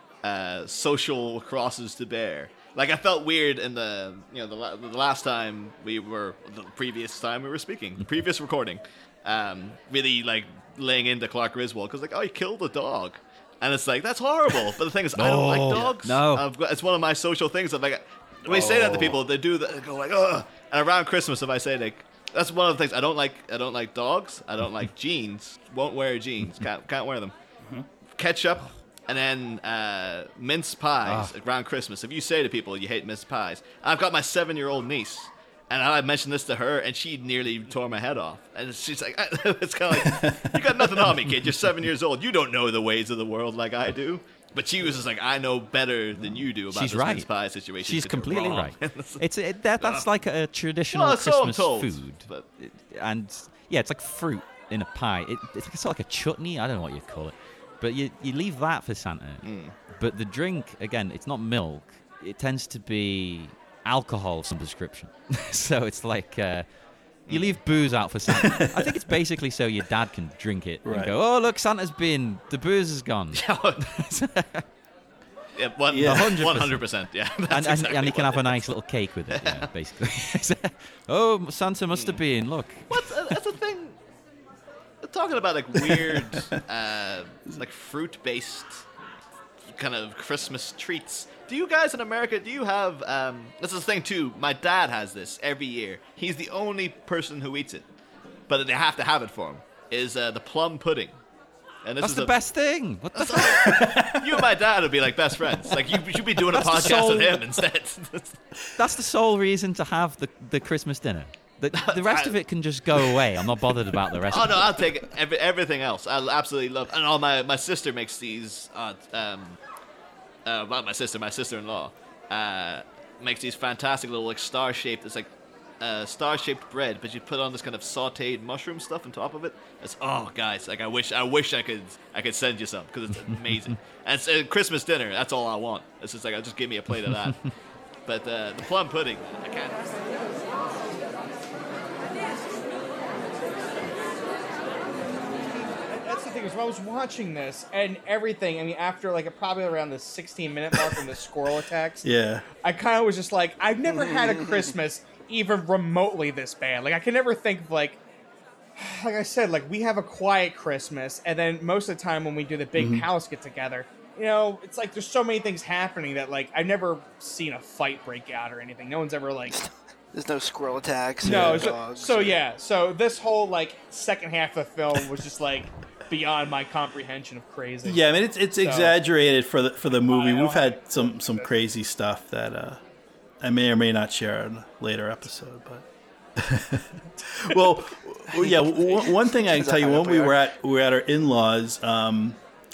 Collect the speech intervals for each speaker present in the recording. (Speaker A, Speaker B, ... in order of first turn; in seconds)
Speaker A: 0.2-27.3, 28.1-50.1, 50.9-52.5, 59.4-59.8, 67.3-67.6, 73.3-74.0, 75.5-79.7, 81.9-82.2, 82.9-84.0, 85.0-88.9, 89.7-97.9, 98.5-101.2, 101.8-102.6, 103.1-108.4, 111.7-113.2, 114.2-119.6, 120.5-137.5, 138.1-140.0
Speaker B: 15.2-16.4, 31.0-31.3, 46.1-74.6, 76.1-83.2, 102.0-103.9, 106.5-107.4, 108.8-115.0, 133.2-133.8, 137.0-137.5
Speaker C: 18.4-19.2, 40.0-41.1, 68.3-69.0, 70.8-71.2, 75.9-76.5, 85.8-86.6, 103.7-104.2, 152.0-152.4, 162.7-163.1, 171.3-171.6, 177.8-182.8, 183.4-185.8, 186.4-192.4
Speaker D: 145.9-152.1, 152.6-158.0, 158.8-169.6, 171.2-179.0, 179.8-181.5
Speaker E: 153.9-154.6, 169.5-172.4, 188.3-190.4